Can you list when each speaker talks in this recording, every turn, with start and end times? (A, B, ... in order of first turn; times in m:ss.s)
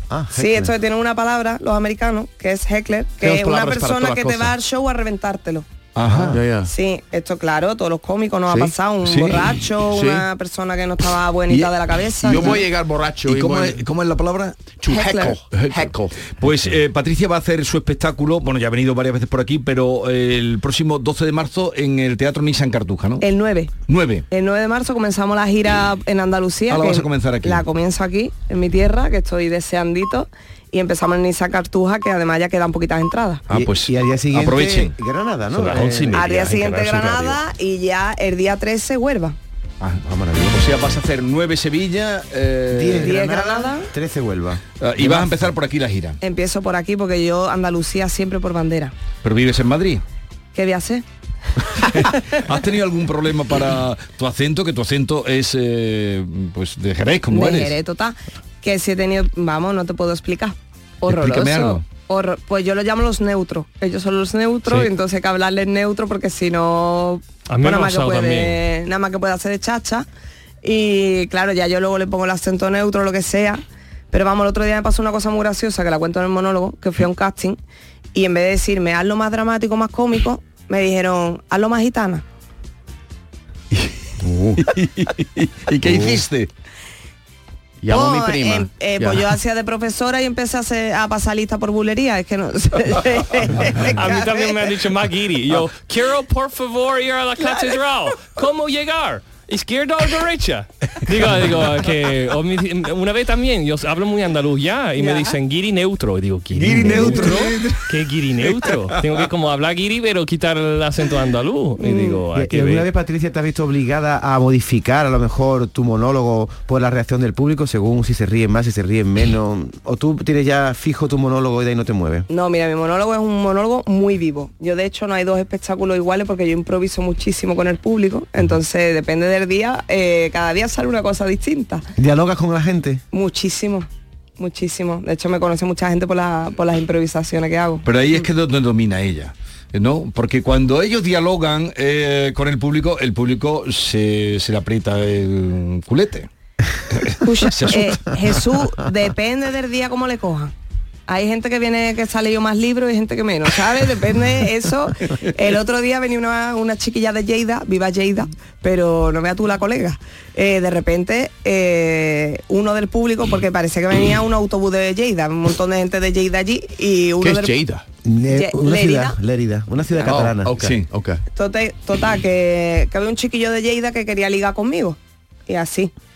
0:00.1-0:00.7 A
0:00.3-0:05.6 B
0:03.2-0:04.6 C
0:06.0-0:06.4 D
0:06.1-0:06.4 A
0:06.3-0:06.7 C
0:06.6-0:12.6 B
0:08.5-0:08.7 C
0:09.0-0:09.6 D
0:09.9-0:10.2 C
0:11.5-0:12.6 D
0:12.2-0:13.8 C
0:13.2-0:23.3 D
0:14.8-0:16.3 C
0:14.9-0:15.3 B
0:23.2-0:23.8 B
0:23.9-0:24.2 D
0:24.3-0:33.4 B
0:26.7-0:27.6 D
0:33.5-0:34.9 D
0:33.5-0:36.2 A
0:35.6-0:37.4 E
0:35.6-0:37.1 D
0:36.1-0:39.4 B
0:39.8-0:43.2 D
0:40.0-0:40.6 A
0:42.7-0:45.3 A
0:43.0-0:43.9 B
0:44.8-0:46.2 D
0:46.2-0:48.9 B
0:49.2-0:50.0 D
0:50.5-0:51.0 B
0:51.9-0:57.8 D
0:57.3-1:10.0 B
1:01.0-1:01.8 D
1:07.5-1:08.6 E
1:10.6-1:17.6 B
1:18.1-1:22.2 B
1:23.7-1:26.5 D
1:24.3-1:24.5 C
1:27.8-1:29.3 C
1:27.9-1:34.7 B
1:33.9-1:52.9 E
1:37.4-1:37.8 B
1:45.0-1:45.4 B
1:46.5-1:47.8 D
1:48.4-1:48.9 D
1:51.8-1:52.1 B
1:52.3-2:02.2 A
2:02.3-2:11.8 B
2:12.0-2:13.0 A
2:13.1-2:13.9 B
2:14.4-2:17.9 B
2:17.8-2:26.3 D
2:26.9-2:28.4 D
2:27.2-2:30.5 B
2:31.1-2:47.6 B
2:47.2-2:47.8 C
2:48.0-2:50.5 A
2:48.3-2:49.2 B
2:50.0-2:51.2 C
2:50.5-2:50.9 D
2:51.3-2:55.9 B